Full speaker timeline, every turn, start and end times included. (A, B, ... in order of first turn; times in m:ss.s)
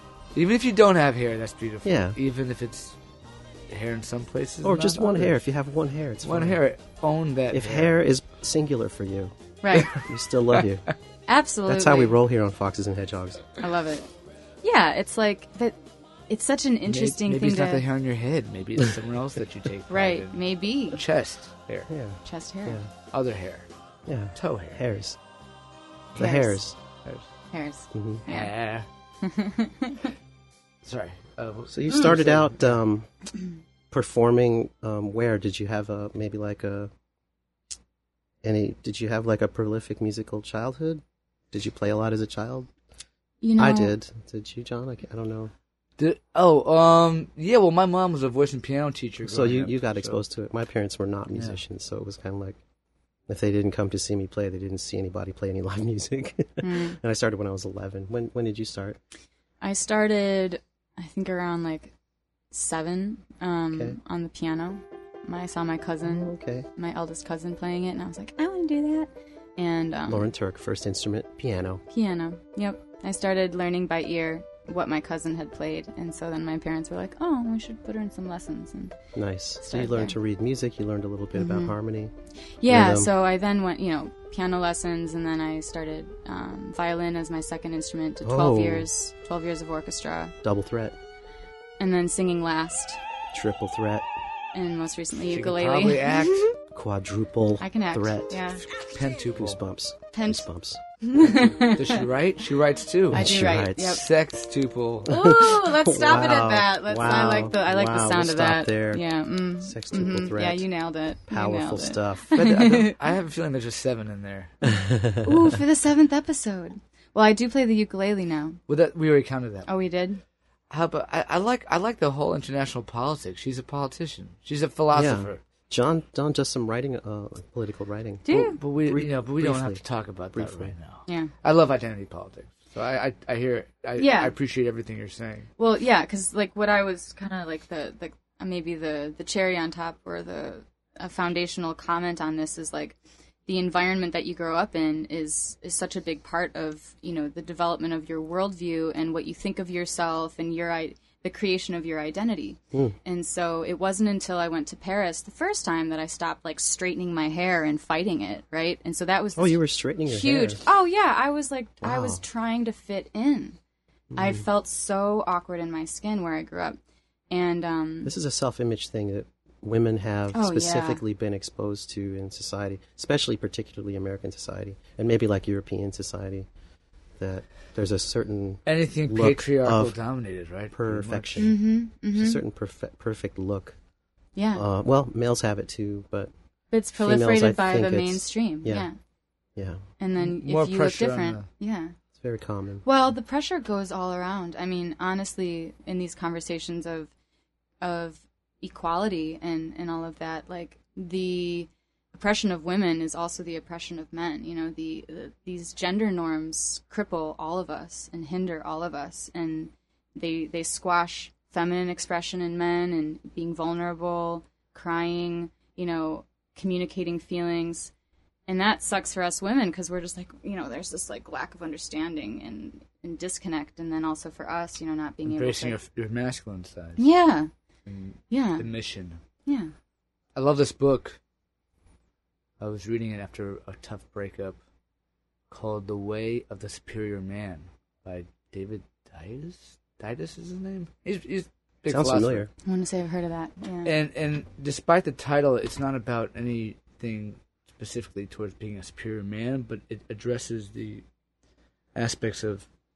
0:00.3-0:03.0 A
0:01.8-0:02.2 B
0:03.7-0:05.4 A
0:04.6-0:06.6 B
0:06.2-0:07.9 A
0:07.5-0:09.3 B
0:09.6-0:09.9 C
0:09.8-0:10.8 B
0:11.3-0:12.1 C
0:11.6-0:13.5 B
0:13.6-0:14.1 C
0:14.6-0:15.8 C
0:16.3-0:17.8 C
0:16.8-0:21.9 A
0:19.9-0:21.0 C
0:21.9-0:22.9 B
0:22.2-0:22.8 C
0:23.1-0:23.6 A
0:24.1-0:25.2 B
0:24.3-0:24.8 A
0:26.1-0:26.8 B
0:26.2-0:26.6 C
0:27.5-0:28.5 C
0:27.9-0:28.2 B
0:28.3-0:28.9 A
0:29.2-0:30.1 C
0:30.8-0:32.6 A
0:31.7-0:33.1 B
0:33.9-0:36.9 B
0:38.4-0:42.7 B
0:43.4-0:43.9 C
0:43.6-0:45.5 B
0:46.0-0:50.2 A
0:49.2-0:52.6 B
0:53.3-0:59.0 B
0:56.6-0:57.0 C
0:59.6-1:01.9 C
1:02.5-1:10.3 C
1:03.7-1:04.0 B
1:06.0-1:06.7 B
1:10.1-1:11.8 B
1:11.9-1:18.9 C
1:19.1-1:22.1 B
1:19.6-1:20.1 C
1:21.4-1:21.8 C
1:22.6-1:30.3 C
1:22.7-1:23.1 B
1:28.2-1:28.9 B
1:30.4-1:31.0 B
1:31.8-1:33.0 C
1:33.3-1:34.1 B
1:34.5-1:36.5 C
1:35.2-1:36.5 A
1:36.7-1:38.5 B
1:37.6-1:38.6 C
1:38.8-1:39.6 A
1:39.3-1:41.4 B
1:40.1-1:40.5 C
1:41.0-1:42.0 C
1:41.6-1:45.1 A
1:43.1-1:44.0 B
1:43.1-1:44.0 C
1:45.0-1:53.0 C
1:45.1-1:49.1 B
1:49.6-1:50.6 B
1:51.3-1:52.8 B
1:52.4-1:54.5 A
1:54.6-1:55.3 B
1:55.2-1:58.6 C
1:58.7-1:59.7 A
1:59.6-2:00.2 C
2:00.7-2:05.4 A
2:04.9-2:09.8 B
2:08.2-2:08.6 C
2:08.3-2:15.5 A
2:10.3-2:10.7 B
2:11.1-2:11.3 C
2:14.0-2:14.3 C
2:15.6-2:43.6 C
2:39.4-2:40.6 B
2:41.8-2:42.2 B
2:44.1-2:44.4 B
2:44.1-2:46.8 C
2:47.3-2:48.1 C
2:48.0-2:56.5 B
2:50.3-2:51.0 C
2:57.2-3:00.0 B
2:58.6-3:01.4 A
3:00.7-3:01.6 B
3:01.4-3:02.4 C
3:02.1-3:03.8 B
3:04.4-3:04.6 C
3:04.5-3:06.3 B
3:06.7-3:09.0 C
3:07.0-3:08.9 B
3:09.6-3:09.8 B
3:10.0-3:11.9 C
3:10.2-3:11.5 A
3:12.2-3:12.8 B
3:12.8-3:17.1 C
3:17.8-3:37.9 C
3:38.5-3:45.8 C
3:45.2-3:47.0 A
3:47.0-3:47.5 C
3:47.9-3:49.2 A
3:48.3-3:48.6 C
3:49.4-3:49.7 C
3:50.3-3:51.2 A
3:52.6-3:54.6 A
3:55.5-4:02.4 A
4:01.9-4:02.5 B
4:02.6-4:03.9 C
4:03.8-4:11.0 A
4:11.9-4:12.6 A